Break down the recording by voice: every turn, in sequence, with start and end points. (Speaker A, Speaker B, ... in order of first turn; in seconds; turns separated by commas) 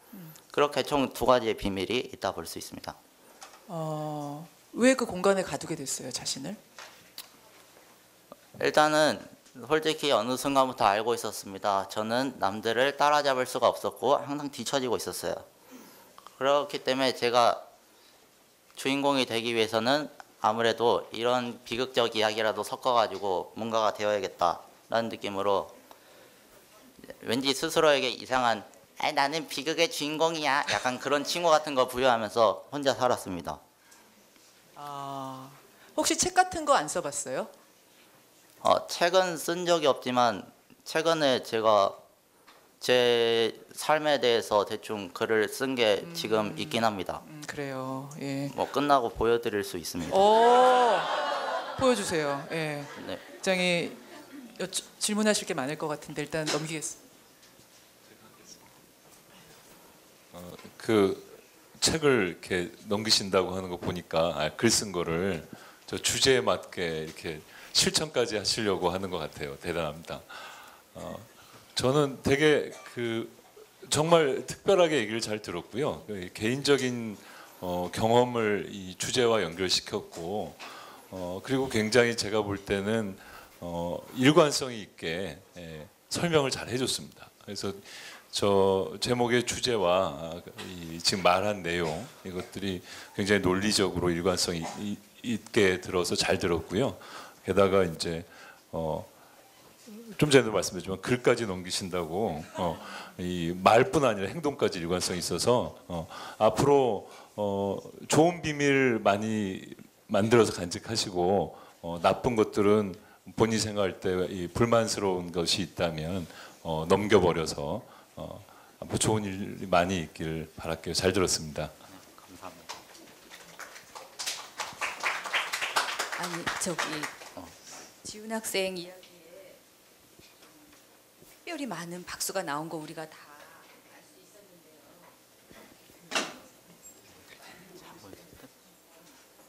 Speaker A: 0.5-3.0, Speaker B: 3.7-6.6, Speaker A: 8.6-15.4, Speaker A: 16.4-17.6, Speaker A: 18.8-25.7, Speaker A: 27.1-33.6, Speaker B: 34.8-37.5, Speaker A: 38.6-42.0, Speaker A: 42.8-47.2, Speaker B: 46.0-48.5, Speaker A: 48.5-50.2, Speaker B: 50.1-54.0, Speaker A: 53.0-53.2, Speaker B: 54.6-57.0, Speaker C: 60.3-99.1, Speaker C: 99.9-121.7, Speaker A: 121.9-122.8, Speaker D: 126.2-127.1, Speaker D: 128.0-129.2, Speaker D: 131.4-133.5, Speaker A: 137.8-138.5